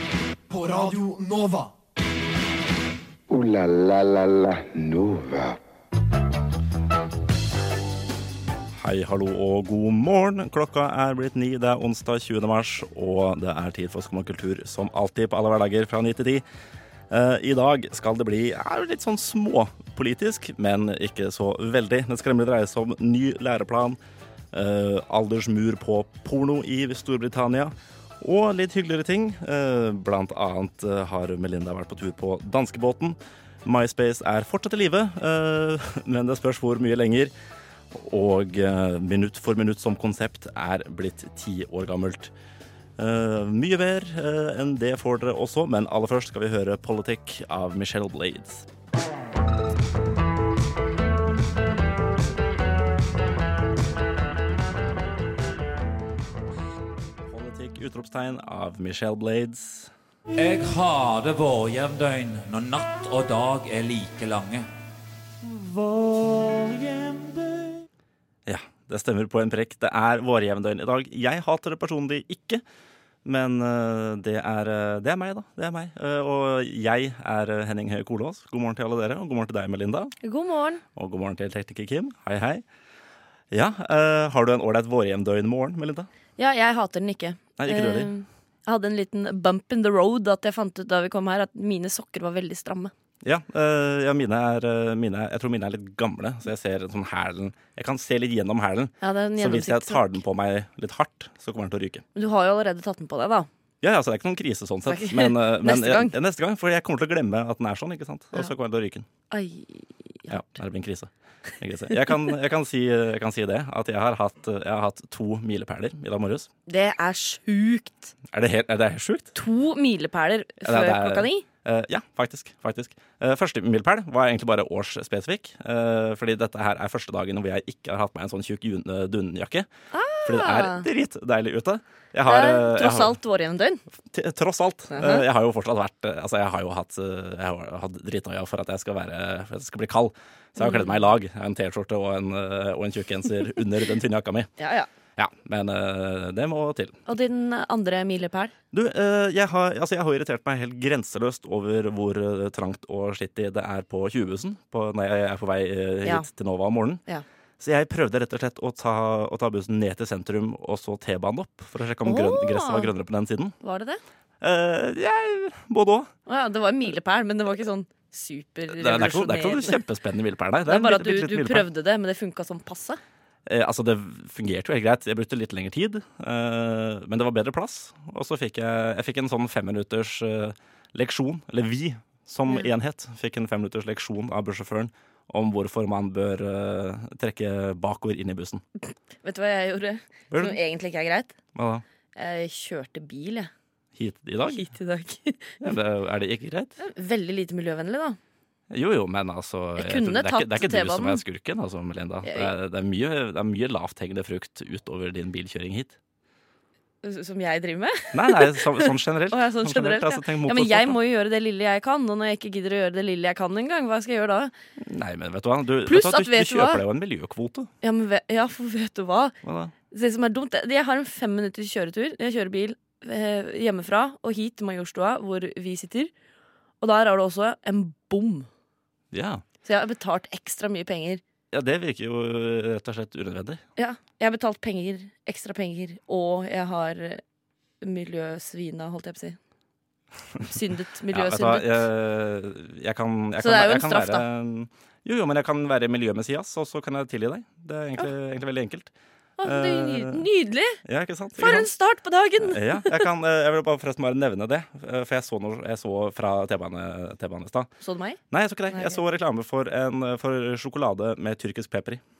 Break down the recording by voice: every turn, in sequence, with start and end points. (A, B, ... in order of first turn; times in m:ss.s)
0:00.5-0:01.7 A
0:03.3-0:05.6 B
0:08.7-0:16.4 C
0:17.1-0:24.0 C
0:24.5-0:37.3 C
0:37.9-0:42.3 C
0:43.0-0:48.6 C
0:57.2-0:59.9 C
1:00.4-1:04.7 D
1:05.5-1:07.7 A
1:08.4-1:12.6 C
1:13.2-1:20.1 C
1:20.2-1:20.8 E
1:20.9-1:22.6 C
1:23.5-1:26.1 C
1:26.4-1:32.9 E
1:27.6-1:28.1 C
1:33.2-1:42.0 C
1:39.0-1:40.2 E
1:42.1-1:43.5 E
1:43.8-1:49.1 C
1:44.8-1:46.1 E
1:49.3-1:50.4 E
1:50.3-1:56.5 C
1:56.7-1:58.1 E
1:58.3-1:59.3 C
1:59.3-2:01.4 E
2:00.6-2:09.7 C
2:09.9-2:10.9 E
2:10.2-2:13.2 C
2:12.3-2:13.8 E
2:14.1-2:24.5 C
2:14.9-2:15.2 E
2:20.6-2:20.9 E
2:24.6-2:24.9 E
2:25.2-2:27.0 C
2:27.0-2:28.5 E
2:28.7-2:37.0 C
2:36.0-2:36.3 E
2:37.6-2:43.6 C
2:42.0-2:42.9 E
2:43.6-2:44.0 E
2:44.4-2:46.1 C
2:46.3-2:49.8 E
2:48.7-2:51.7 C
2:50.6-2:53.0 E
2:53.4-3:08.6 C
3:09.2-3:11.3 E
3:10.3-3:10.6 C
3:11.5-3:11.8 C
3:12.2-3:13.5 E
3:14.0-3:14.6 C
3:14.4-3:15.6 E
3:15.6-3:16.8 C
3:16.8-3:18.2 E
3:18.7-3:26.0 C
3:19.8-3:21.2 E
3:22.2-3:22.5 E
3:27.0-3:34.5 E
3:28.1-3:31.0 C
3:34.8-3:37.7 C
3:35.8-3:36.8 E
3:37.8-3:39.3 E
3:39.4-3:39.7 C
3:39.9-3:46.1 E
3:46.8-3:48.5 E
3:49.1-3:49.4 C
3:49.6-3:51.2 E
3:51.5-3:53.6 C
3:53.8-3:57.2 E
3:57.8-3:59.4 E
4:00.5-4:01.8 E
4:01.1-4:08.9 C
4:03.4-4:04.2 E
4:09.4-4:10.8 E
4:09.4-4:10.3 C
4:10.8-4:11.7 C
4:11.4-4:13.0 E
4:12.4-4:17.7 C
4:17.8-4:19.0 E
4:18.3-4:22.0 C